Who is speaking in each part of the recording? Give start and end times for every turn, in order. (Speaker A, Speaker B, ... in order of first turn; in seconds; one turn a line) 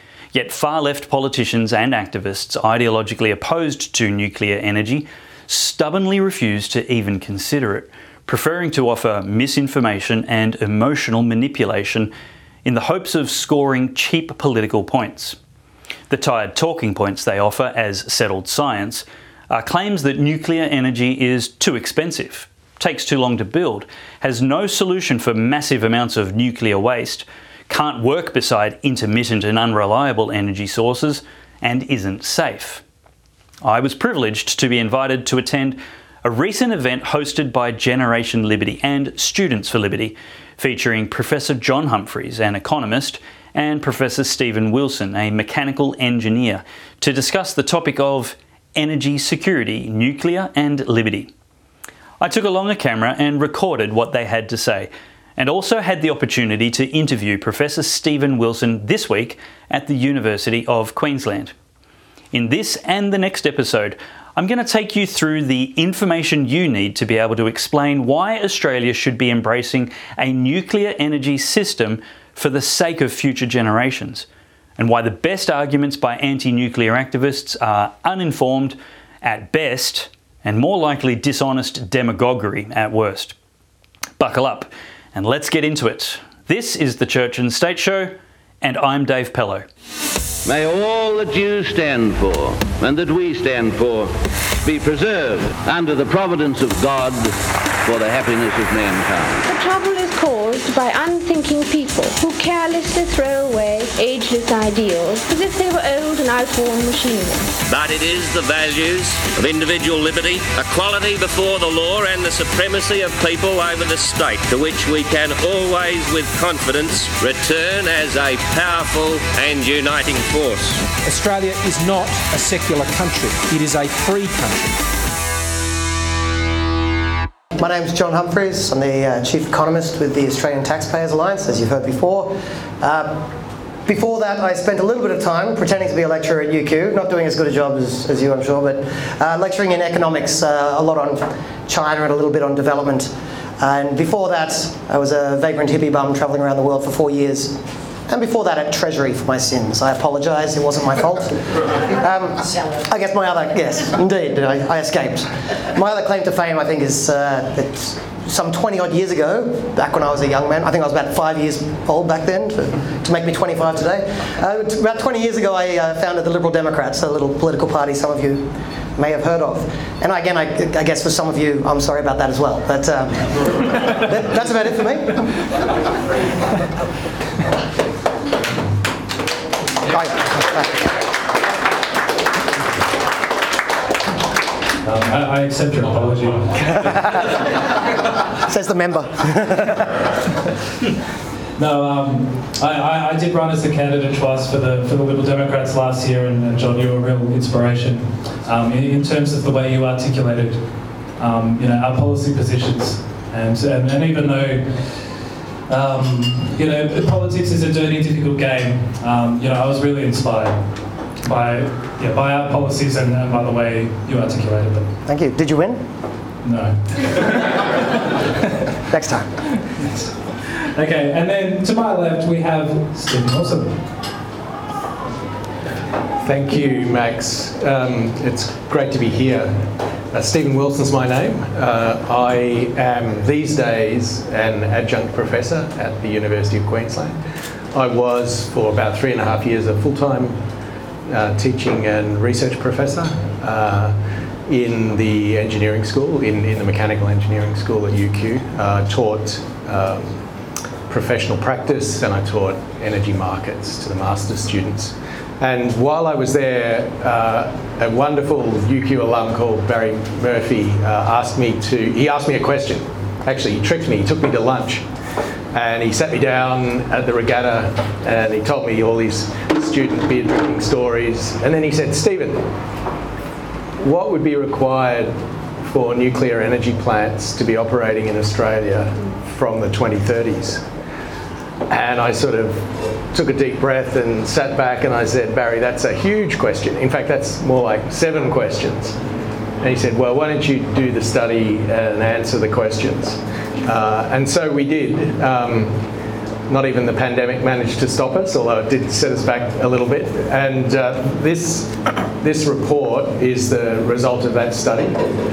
Speaker A: 0.3-12.1
Speaker A: 12.6-15.4
Speaker A: 16.1-32.8
Speaker A: 33.6-51.3
Speaker A: 52.2-61.5
Speaker A: 62.3-74.2
Speaker A: 74.8-83.3
Speaker A: 84.2-89.7
Speaker B: 90.4-99.4
Speaker C: 99.5-107.5
Speaker D: 107.7-120.8
Speaker E: 121.0-124.8
Speaker F: 127.6-133.3
Speaker F: 133.9-175.3
Speaker F: 179.9-180.3
Speaker G: 184.8-186.9
Speaker F: 186.8-187.4
Speaker F: 188.3-190.0
Speaker G: 191.6-205.0
Speaker G: 205.7-210.6
Speaker G: 211.2-214.9
Speaker F: 215.1-215.8
Speaker G: 216.4-218.3
Speaker F: 218.9-219.3
Speaker G: 219.8-223.8
Speaker H: 226.2-237.2
Speaker H: 237.7-240.4
Speaker H: 241.1-250.2
Speaker H: 250.9-264.9
Speaker H: 265.5-272.5
Speaker H: 273.8-280.6
Speaker H: 281.7-289.0
Speaker H: 289.6-295.9
Speaker H: 296.5-305.0